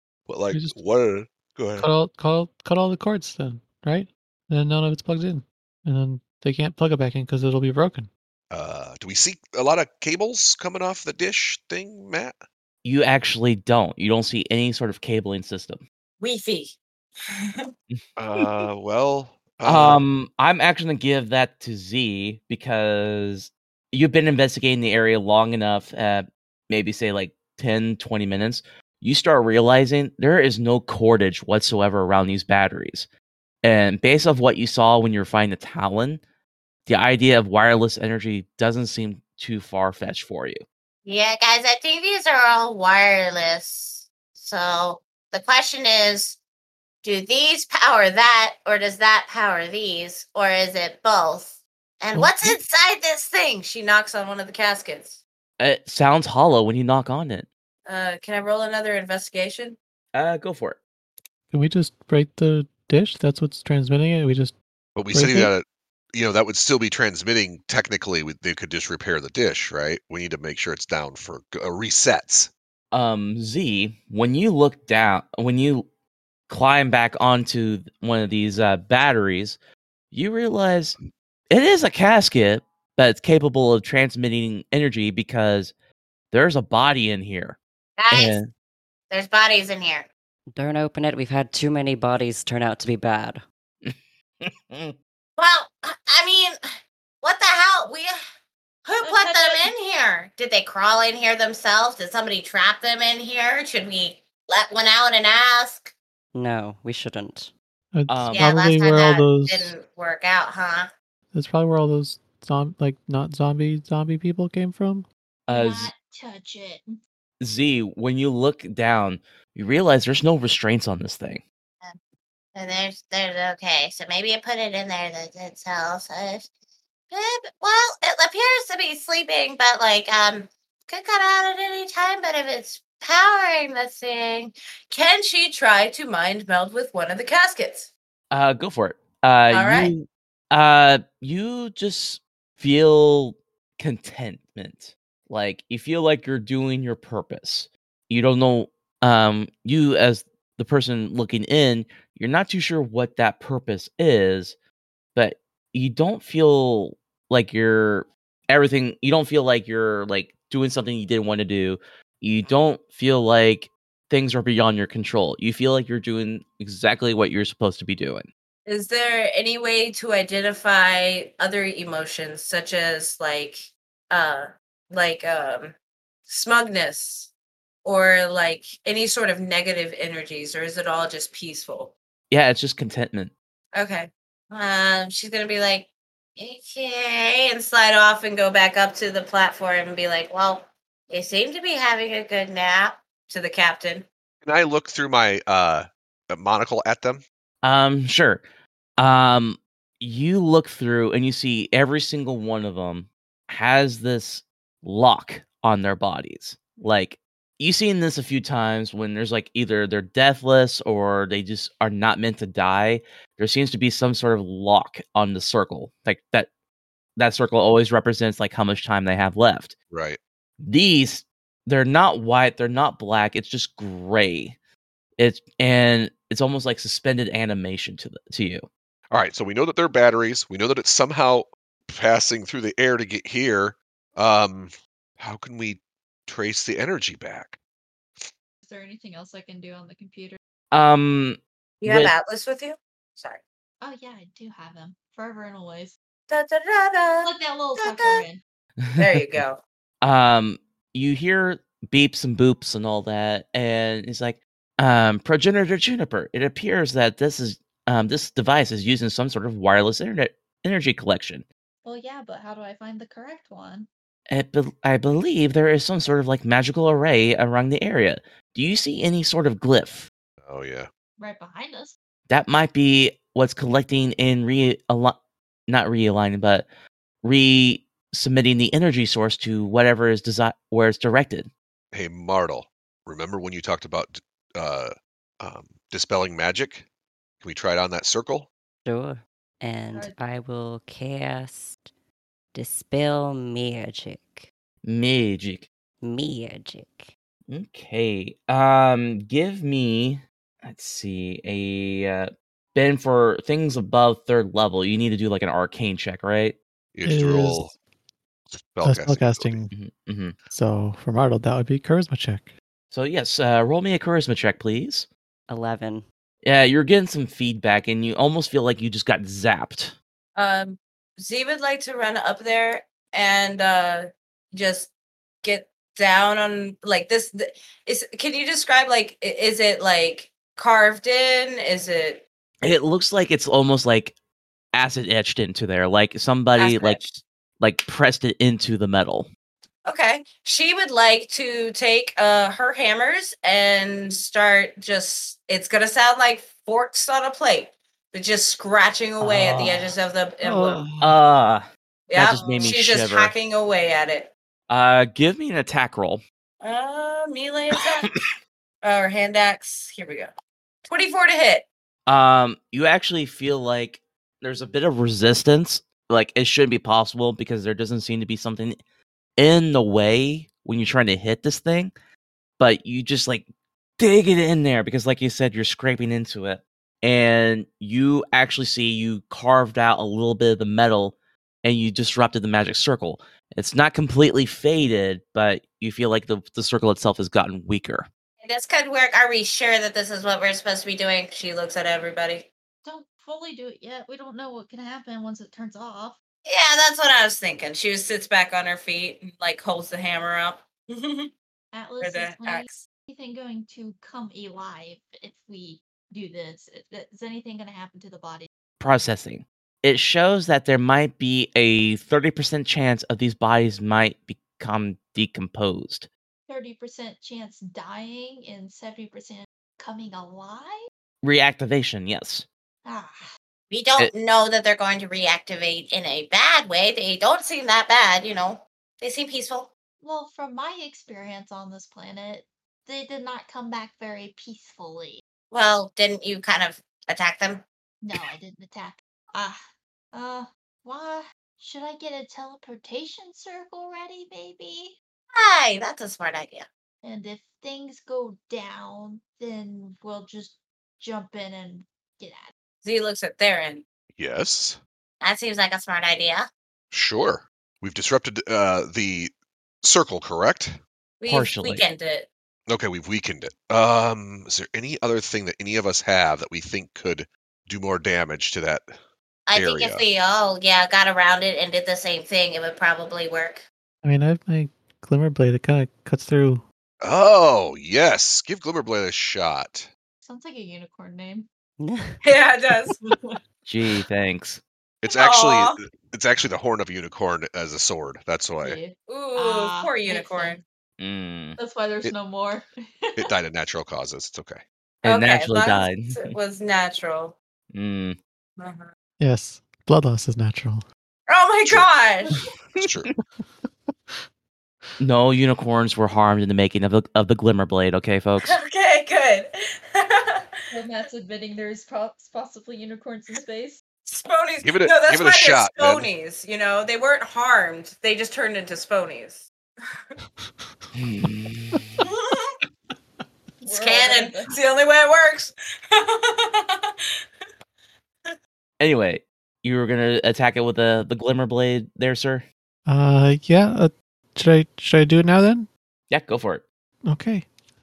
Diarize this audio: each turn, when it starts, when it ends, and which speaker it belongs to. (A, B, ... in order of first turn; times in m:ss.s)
0:00.3-0:01.9 A
0:01.8-0:08.1 B
0:08.5-0:12.4 A
0:12.8-0:15.8 C
0:16.2-0:16.8 D
0:18.2-0:20.0 A
0:19.6-0:33.1 C
0:33.6-0:36.2 C
0:36.9-0:40.6 C
0:41.0-0:46.4 E
0:47.0-0:53.7 E
0:52.1-0:52.6 B
0:53.7-0:55.2 D
0:55.6-0:57.5 C
0:57.9-0:59.8 D
1:00.1-1:00.8 C
1:01.5-1:04.6 B
1:05.0-1:12.5 A
1:05.1-1:05.5 B
1:12.9-1:15.9 C
1:16.5-1:19.6 C
1:20.1-1:21.0 C
1:21.5-1:25.7 C
1:26.3-1:27.6 C
1:28.0-1:28.4 E
1:28.1-1:28.5 C
1:29.1-1:30.1 E
1:30.5-1:33.4 F
1:33.8-1:35.0 C
1:35.4-1:36.6 E
1:37.2-1:38.1 E
1:38.9-1:45.9 E
1:39.0-1:39.6 G
1:46.3-1:47.5 F
1:47.9-1:49.8 B
1:48.1-1:48.5 C
1:48.3-1:50.9 E
1:51.3-1:55.1 B
1:55.5-1:55.9 C
1:55.5-1:57.0 G
1:57.4-2:01.4 C
2:02.6-2:06.5 E
2:07.1-2:14.5 E
2:14.9-2:17.9 D
2:18.3-2:34.6 C
2:19.5-2:19.9 D
2:35.2-2:48.3 C
2:48.7-2:55.7 D
2:56.3-2:57.3 D
2:57.8-3:01.9 D
3:02.3-3:03.3 C
3:03.8-3:04.1 D
3:04.6-3:05.9 E
3:06.4-3:07.5 E
3:07.7-3:10.3 D
3:10.2-3:13.0 E
3:13.2-3:14.0 D
3:14.4-3:17.2 A
3:17.6-3:18.4 C
3:19.0-3:36.5 C
3:37.2-3:39.7 C
3:39.9-3:40.2 A
3:40.6-3:44.6 C
3:45.2-3:48.7 C
3:49.1-3:57.6 A
3:58.6-4:00.4 G
4:00.7-4:02.1 C
4:01.8-4:03.4 D
4:03.8-4:05.9 G
4:06.3-4:07.3 D
4:07.2-4:08.4 G
4:09.0-4:09.6 D
4:10.0-4:21.4 C
4:21.8-4:23.9 G
4:24.3-4:30.1 C
4:30.4-4:30.9 A
4:31.2-4:31.9 G
4:32.3-4:35.2 C
4:35.7-4:36.7 C
4:37.2-4:41.5 C
4:41.9-4:46.9 A
4:47.4-4:48.5 A
4:48.9-4:51.8 F
4:52.5-4:54.5 F
4:54.8-4:55.7 C
4:56.0-4:57.1 F
4:57.5-5:06.6 C
5:06.9-5:07.7 A
5:07.0-5:07.7 B
5:08.5-5:09.6 A
5:08.8-5:09.7 B
5:09.7-5:10.4 C
5:10.5-5:12.5 B
5:12.9-5:15.1 C
5:15.5-5:16.0 F
5:16.4-5:20.0 C
5:20.4-5:24.9 D
5:25.4-5:32.2 D
5:32.6-5:34.1 C
5:34.7-5:39.3 C
5:36.6-5:37.1 D
5:39.9-5:50.8 D
5:49.2-5:49.9 B
5:50.4-5:51.2 B
5:51.0-5:53.3 C
5:52.1-5:54.3 D
5:54.7-5:56.2 C
5:56.6-5:58.1 D
5:58.8-6:00.3 D
6:00.9-6:01.7 D
6:02.1-6:08.8 C
6:09.4-6:11.9 C
6:12.6-6:13.5 C
6:14.0-6:28.1 C
6:28.4-6:31.4 E
6:31.4-6:32.5 D
6:32.8-6:36.2 G
6:36.5-6:37.7 E
6:37.6-6:41.3 D
6:41.7-6:48.5 G
6:42.0-6:42.7 D
6:48.8-6:56.1 C
6:56.5-7:00.8 G
7:01.2-7:02.5 C
7:02.8-7:03.3 G
7:03.7-7:09.7 E
7:10.0-7:15.2 G
7:15.5-7:17.6 E
7:18.0-7:19.6 G
7:20.1-7:25.0 G
7:25.3-7:26.7 E
7:27.0-7:32.5 G
7:32.8-7:33.8 D
7:34.2-7:34.8 A
7:35.2-7:36.5 E
7:36.9-7:39.3 A
7:39.8-7:40.8 A
7:41.2-7:42.3 D
7:41.3-7:41.8 C
7:42.7-7:48.9 A
7:49.5-7:53.6 E
7:49.5-7:50.0 A
7:54.0-7:56.6 B
7:57.0-7:59.9 A
8:00.2-8:01.5 G
8:01.8-8:02.2 F
8:02.2-8:03.4 D
8:03.7-8:04.6 C
8:05.0-8:08.8 A
8:05.1-8:05.8 D
8:08.6-8:10.6 G
8:09.1-8:10.6 D
8:11.0-8:11.6 C
8:11.6-8:13.3 G
8:13.2-8:14.6 A
8:15.0-8:17.4 D
8:15.0-8:16.2 C
8:17.7-8:18.2 C
8:18.6-8:18.9 D
8:19.2-8:20.8 B
8:21.3-8:22.4 D
8:22.8-8:23.1 A
8:25.0-8:28.6 C
8:28.4-8:30.4 D
8:30.7-8:33.8 G
8:34.1-8:39.5 D
8:34.6-8:36.1 A
8:41.0-8:42.0 C
8:41.7-8:42.0 B
8:42.0-8:42.5 D
8:43.6-8:44.5 G
8:43.8-8:46.8 D
8:48.8-8:52.5 C
8:52.9-8:55.7 B
8:56.1-8:56.6 C
8:57.0-8:57.5 B